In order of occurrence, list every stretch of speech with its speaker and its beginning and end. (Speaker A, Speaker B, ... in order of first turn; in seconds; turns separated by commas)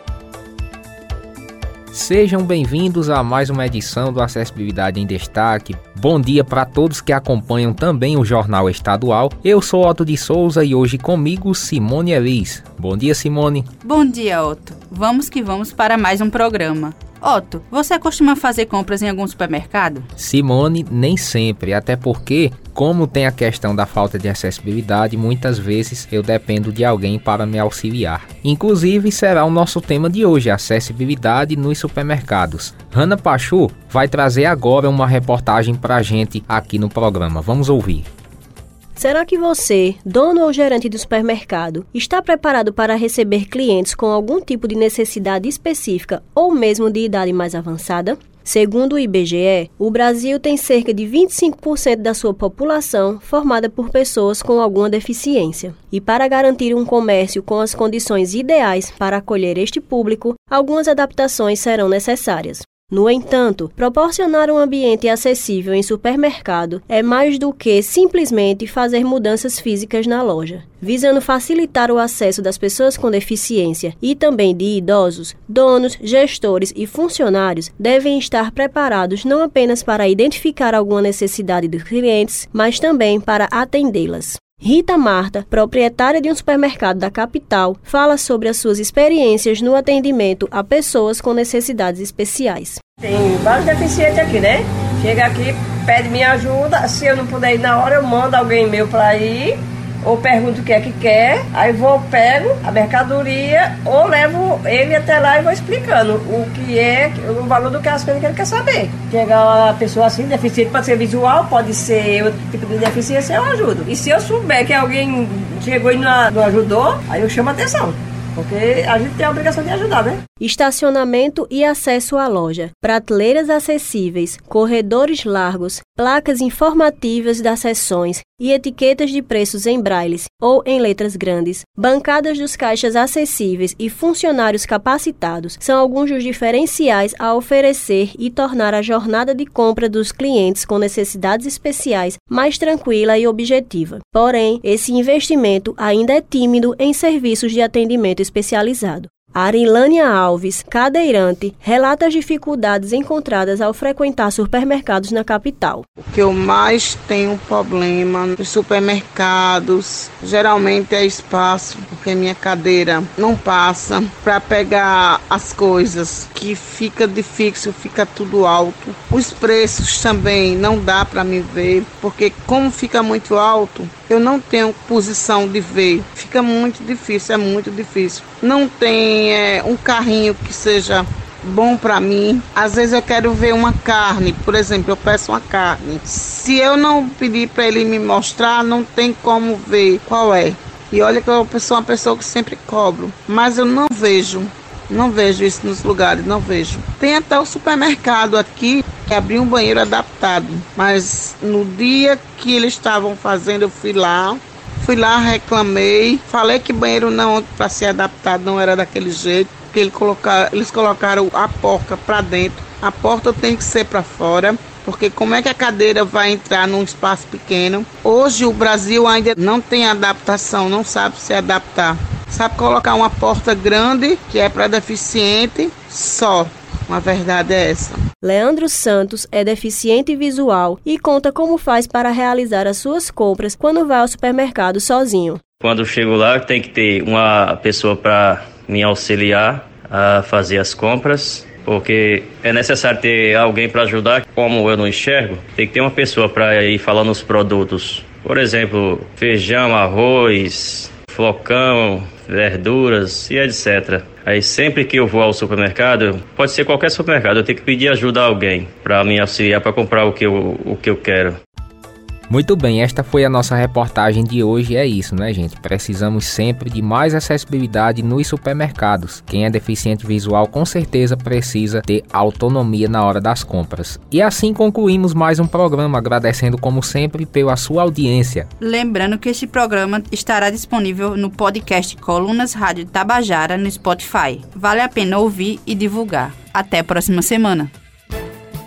Speaker A: 1.9-13.7, Speaker B: 13.8-20.1, Speaker A: 20.2-38.1, Speaker C: 39.0-92.8, Speaker D: 93.0-120.2, Speaker C: 120.4-155.8, Speaker E: 156.0-228.0, Speaker C: 228.2-235.4, Speaker F: 235.6-261.4, Speaker A: 262.3-278.5, Speaker B: 278.6-287.7